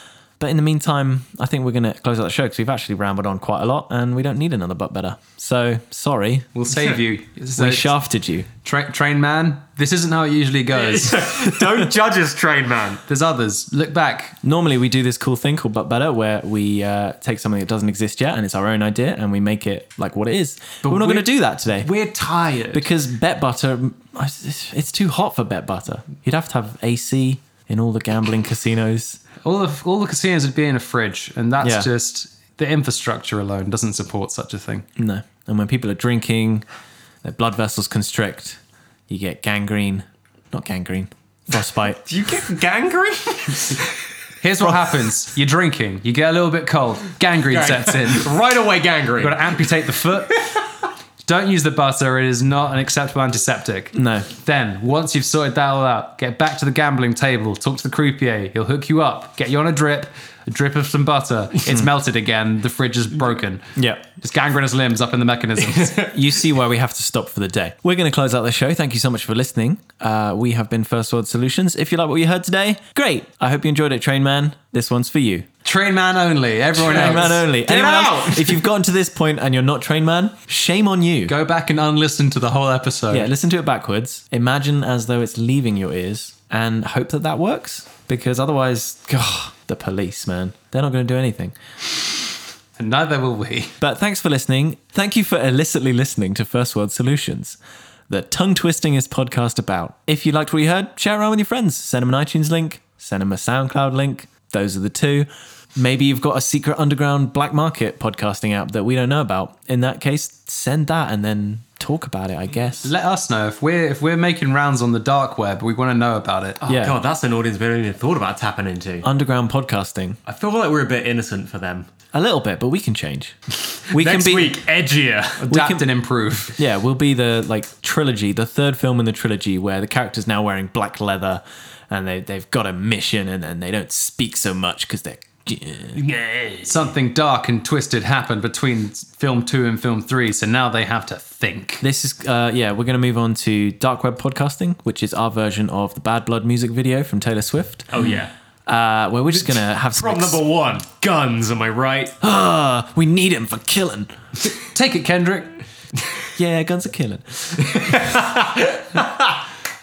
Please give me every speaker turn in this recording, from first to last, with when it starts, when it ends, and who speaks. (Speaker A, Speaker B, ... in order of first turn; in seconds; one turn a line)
Speaker A: 0.4-6.5
Speaker B: 6.5-8.0
Speaker A: 7.6-8.5
Speaker B: 8.6-11.3
Speaker C: 10.8-13.0
Speaker B: 13.1-14.4
Speaker A: 14.4-21.9
Speaker B: 20.8-22.9
Speaker A: 22.7-29.2
Speaker B: 29.4-34.9
Speaker A: 31.6-31.9
Speaker A: 35.0-36.6
Speaker A: 37.2-42.1
Speaker C: 42.1-44.0
Speaker B: 44.4-48.3
Speaker C: 47.5-49.7
Speaker B: 49.2-50.5
Speaker B: 51.3-66.1
Speaker A: 53.9-54.3
Speaker A: 63.8-64.0
Speaker C: 65.8-66.1
Speaker A: 66.0-75.5
Speaker B: 75.6-78.6
Speaker A: 76.8-81.3
Speaker B: 81.3-83.3
Speaker A: 83.1-91.5
Speaker B: 92.8-93.7
Speaker A: 93.8-97.6
Speaker A: 98.1-112.9
Speaker B: 112.8-116.6
Speaker C: 116.6-119.1
Speaker A: 116.7-117.0
Speaker A: 119.0-120.2
Speaker C: 120.3-121.9
Speaker A: 122.1-123.4
Speaker C: 123.7-125.5
Speaker A: 123.9-124.6
Speaker B: 125.4-126.6
Speaker A: 125.5-125.8
Speaker A: 126.6-136.1
Speaker C: 136.2-136.6
Speaker B: 136.6-141.8
Speaker A: 141.8-148.1
Speaker C: 147.9-148.3
Speaker A: 148.7-150.4
Speaker C: 149.3-152.2
Speaker A: 152.2-154.1
Speaker B: 154.7-155.5
Speaker A: 156.4-157.9
Speaker C: 157.6-159.4